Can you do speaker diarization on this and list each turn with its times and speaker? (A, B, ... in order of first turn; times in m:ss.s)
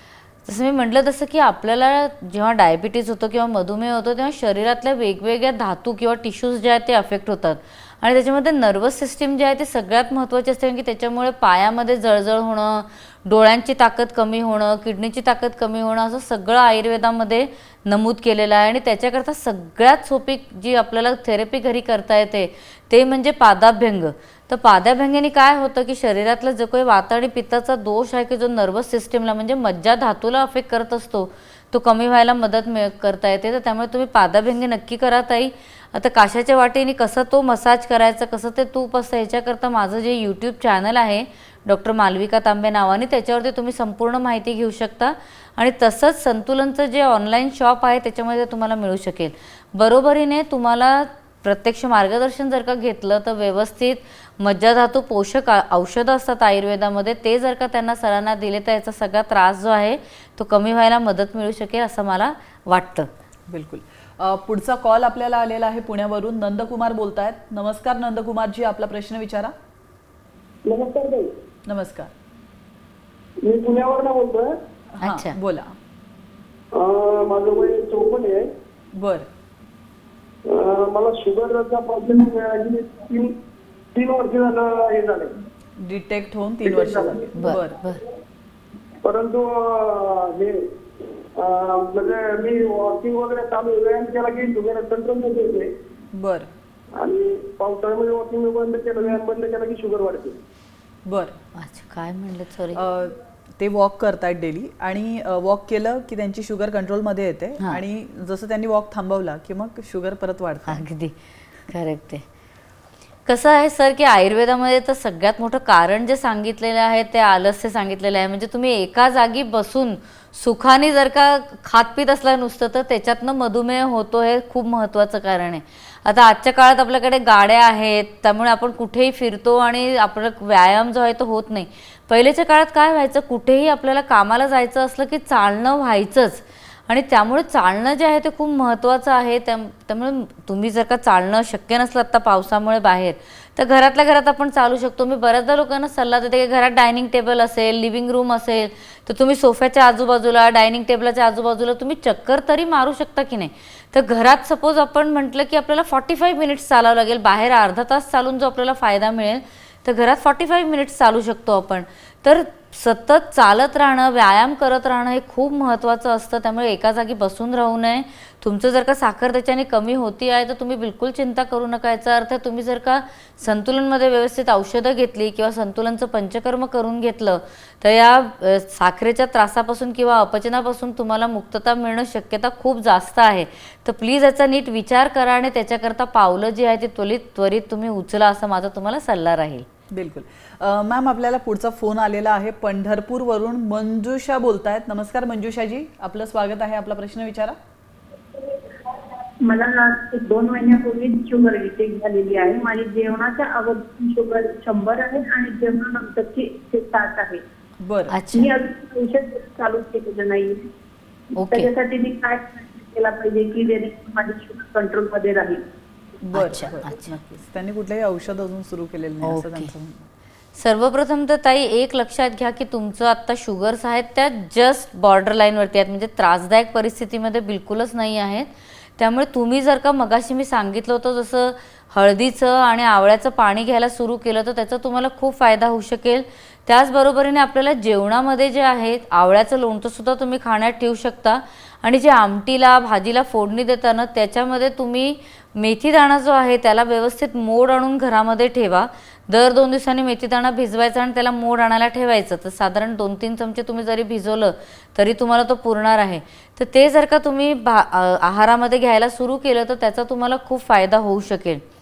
0:00.4-1:03.1 A
1:03.5-1:09.5 B
1:10.6-1:11.3 C
1:11.6-1:12.1 B
1:13.4-1:14.5 C
1:15.0-1:15.7 B
1:15.0-1:15.4 A
1:16.7-1:18.4 C
1:19.0-1:19.3 B
1:20.4-1:23.3 C
1:23.9-1:25.3 C
1:25.8-1:27.8 B
1:26.6-1:27.3 C
1:27.4-1:28.0 A
1:29.0-1:30.6 C
1:31.4-1:35.7 C
1:36.1-1:36.5 B
1:37.0-1:40.4 C
1:41.0-1:41.4 B
1:41.6-1:42.8 A
1:42.7-1:50.8 B
1:50.7-1:51.1 A
1:51.7-1:52.2 A
1:53.2-3:09.6 A
3:09.9-3:17.6 B
3:19.4-3:27.4 D
3:27.8-3:28.2 B
3:28.1-3:28.5 A
3:28.3-3:30.7 D
3:31.4-3:31.7 A
3:31.4-3:35.6 D
3:36.2-3:40.1 B
3:36.3-3:37.1 A
3:39.2-3:39.7 A
3:40.6-4:21.6 A